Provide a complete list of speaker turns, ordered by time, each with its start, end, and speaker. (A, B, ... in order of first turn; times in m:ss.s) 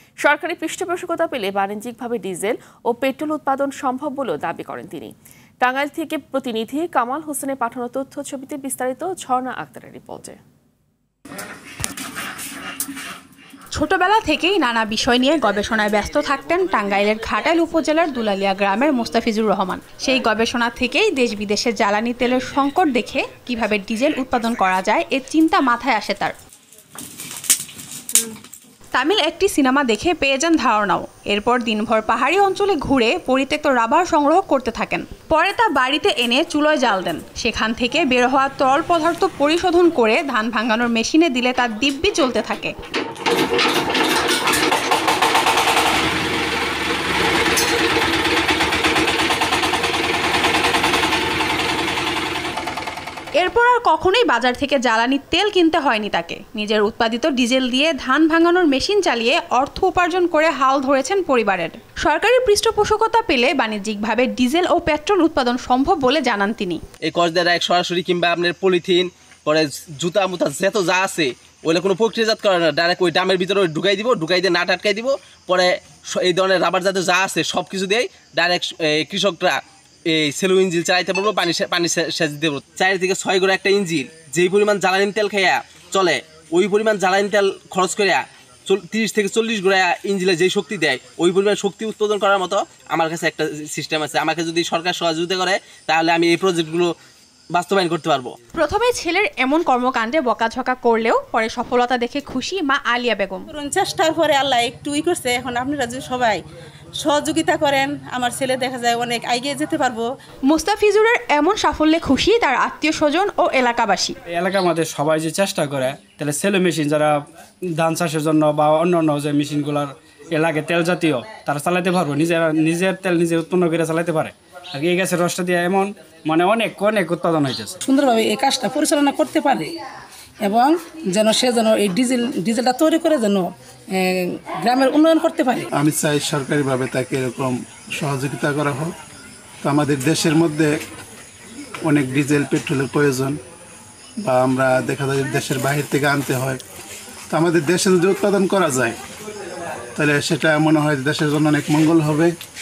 0:00.2-0:10.4 A
0:13.7-0:26.3 B
0:28.9-0:42.7 B
0:53.4-1:06.8 B
1:07.0-1:19.6 C
1:20.1-1:36.9 C
1:37.5-1:38.3 C
1:38.6-1:43.5 B
1:43.5-1:46.4 D
1:47.0-1:50.1 D
1:50.5-1:54.2 B
1:54.3-1:57.2 E
1:57.8-2:07.7 E
2:07.8-2:09.7 F
2:10.4-2:15.7 F
2:15.7-2:18.9 G
2:19.6-2:20.8 G
2:21.8-2:23.4 G
2:24.2-2:26.6 G
2:27.3-2:29.0 G
2:30.0-2:32.3 G